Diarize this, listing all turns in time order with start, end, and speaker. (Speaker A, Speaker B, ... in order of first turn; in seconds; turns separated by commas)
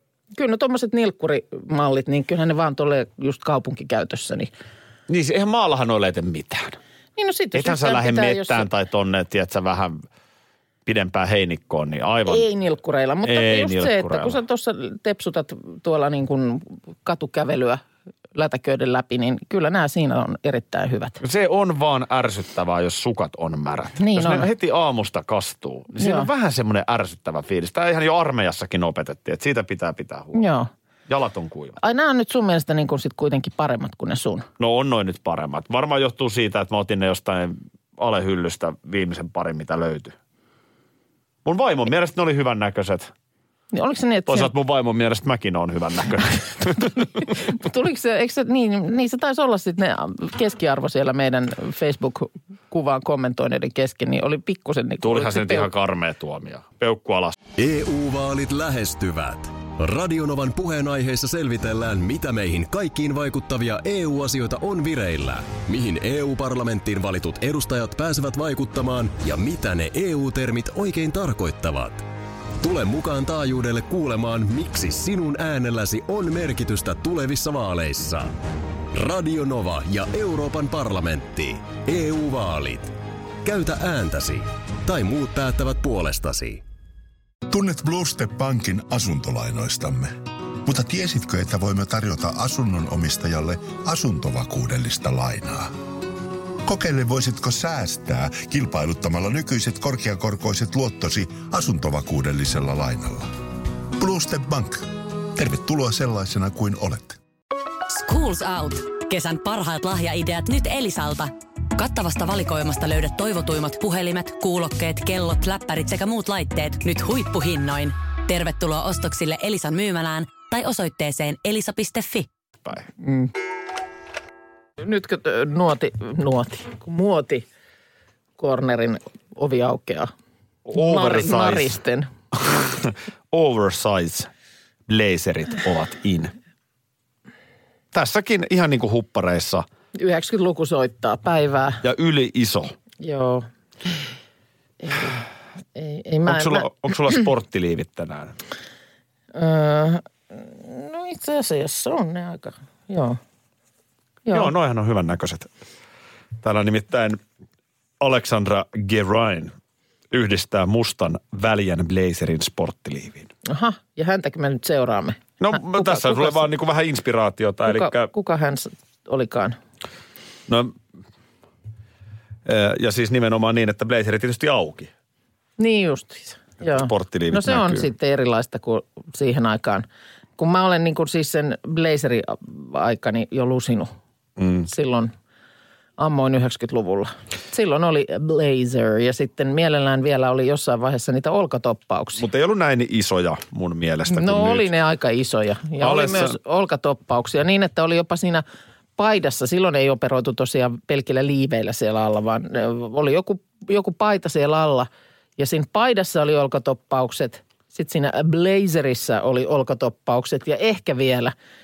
Speaker A: 0.3-4.5, Speaker B: 5.1-6.8, Speaker A: 7.2-8.7, Speaker B: 7.5-10.0, Speaker B: 10.8-12.5, Speaker A: 12.2-17.8, Speaker B: 13.2-14.3, Speaker A: 18.3-21.2, Speaker B: 21.2-30.4, Speaker A: 24.0-24.5, Speaker A: 26.0-26.3, Speaker A: 30.3-30.7, Speaker B: 31.1-31.8, Speaker A: 31.8-34.5, Speaker B: 34.6-40.1, Speaker B: 41.4-43.1, Speaker A: 43.7-44.5, Speaker B: 44.3-47.3, Speaker A: 47.2-55.7, Speaker B: 55.0-57.4, Speaker C: 57.6-72.0, Speaker C: 72.6-78.3, Speaker C: 78.9-82.9, Speaker C: 83.4-86.6, Speaker D: 87.5-95.7, Speaker D: 96.6-103.3, Speaker D: 104.0-107.2, Speaker E: 107.9-122.3, Speaker A: 123.0-123.3, Speaker A: 124.8-127.4, Speaker A: 128.4-130.1, Speaker B: 130.7-131.8, Speaker A: 130.7-132.1, Speaker B: 132.3-134.3, Speaker B: 134.9-136.3, Speaker B: 137.9-139.6, Speaker A: 140.0-141.8, Speaker B: 141.8-142.7, Speaker A: 143.0-144.1, Speaker A: 144.8-145.2, Speaker A: 145.7-147.2, Speaker B: 146.2-148.4, Speaker A: 149.3-153.2, Speaker A: 154.2-154.5, Speaker B: 154.3-155.5, Speaker B: 156.4-157.2, Speaker B: 158.0-159.5, Speaker B: 160.1-163.3, Speaker A: 163.5-166.4, Speaker B: 165.4-168.1, Speaker A: 167.6-169.6, Speaker B: 170.5-170.8, Speaker B: 172.4-174.9, Speaker A: 175.6-179.8, Speaker B: 176.6-177.8, Speaker A: 180.4-183.9, Speaker B: 184.4-184.7, Speaker A: 184.7-185.1, Speaker A: 186.0-192.2, Speaker B: 192.2-194.7, Speaker A: 194.1-198.4, Speaker B: 195.8-196.3, Speaker A: 199.0-211.3